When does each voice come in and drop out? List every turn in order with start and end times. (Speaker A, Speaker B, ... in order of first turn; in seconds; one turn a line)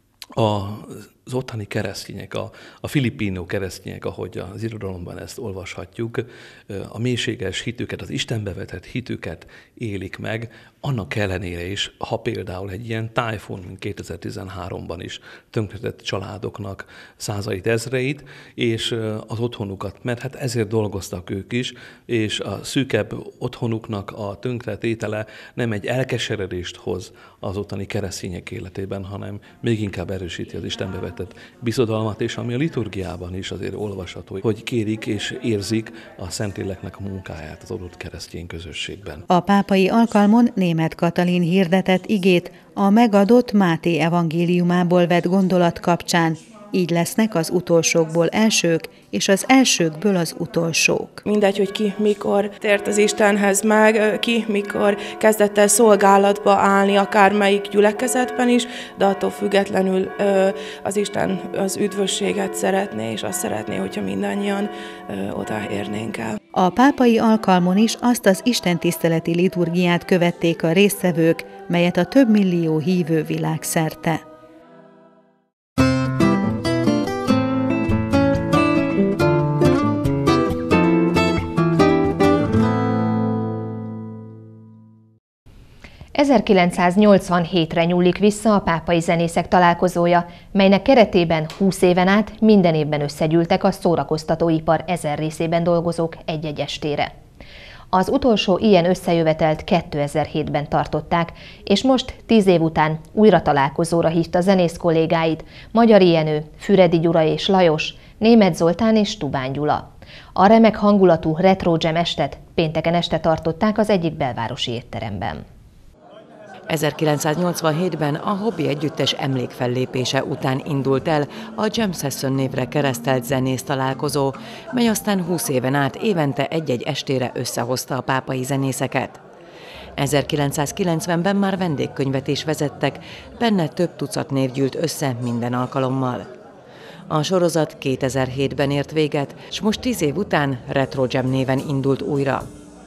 Speaker A: 0.4-39.3
Speaker B: 39.3-51.2
Speaker C: 51.2-66.4
Speaker B: 66.5-74.2
Speaker D: 86.1-97.1
Speaker D: 97.9-115.5
Speaker E: 116.7-129.2
Speaker E: 130.0-136.3
Speaker E: 137.1-142.5